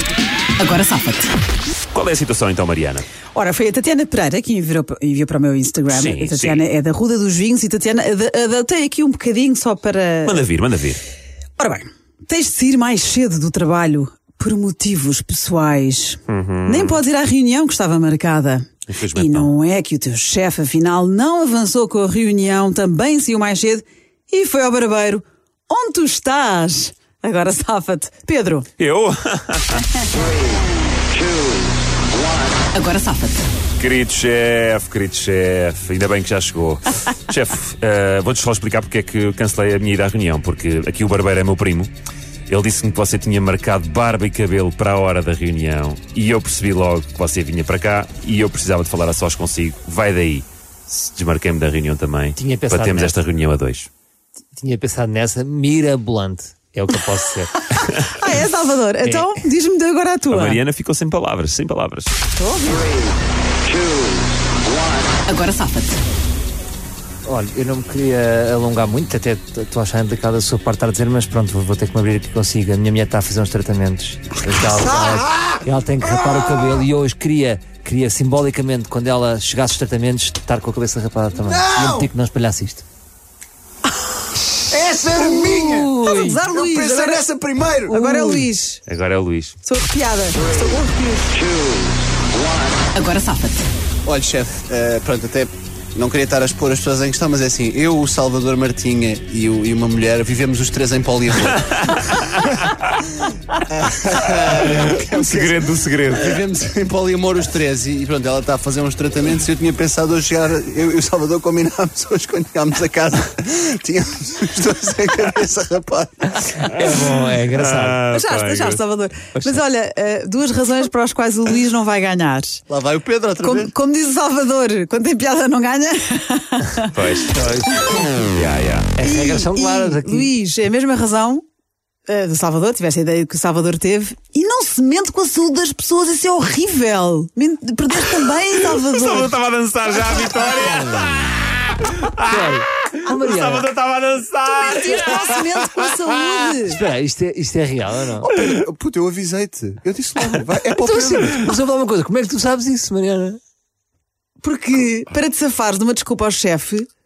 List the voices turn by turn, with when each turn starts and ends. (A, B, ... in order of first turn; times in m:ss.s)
0:00.6-0:01.3 A
0:01.9-0:03.0 B
0:03.3-0:10.4 A
0:05.9-0:06.6 B
0:10.2-0:11.0 B
0:11.6-0:28.7 A
0:16.3-0:17.0 B
0:18.9-0:19.5 B
0:28.8-0:29.8 B
0:32.7-0:33.5 A
0:33.8-0:41.9 B
0:42.5-0:53.9 B
0:52.4-0:53.2 C
0:54.5-0:57.5 C
0:57.6-1:00.6 A
0:59.0-0:59.4 C
1:00.3-1:02.2 B
1:02.3-1:03.1 A
1:05.2-1:06.0 A
1:07.2-1:22.8 C
1:14.9-1:15.5 D
1:21.5-1:22.1 D
1:24.7-1:25.9 D
1:25.4-1:26.5 C
1:25.9-1:27.2 A
1:26.5-1:28.0 D
1:27.8-1:28.8 A
1:27.9-1:28.4 C
1:28.9-1:29.6 B
1:29.6-1:31.4 A
1:32.9-1:33.6 A
1:34.0-1:42.0 D
1:41.9-1:42.5 B
1:43.7-1:56.6 D
1:44.6-1:46.4 B
1:56.6-1:58.0 C
1:56.7-1:58.8 B
1:58.1-2:02.6 A
2:02.7-2:03.7 D
2:03.4-2:06.9 A
2:06.9-2:07.3 B
2:07.3-2:08.2 C
2:08.2-2:08.9 B
2:09.0-2:10.3 C
2:09.0-2:11.4 A
2:12.1-2:19.4 A
2:18.2-2:26.1 B
2:20.8-2:21.1 C
2:22.2-2:23.7 C
2:24.4-2:26.8 A
2:26.6-2:28.3 C
2:28.2-2:31.5 D
2:30.4-2:33.4 C
2:34.4-2:36.9 A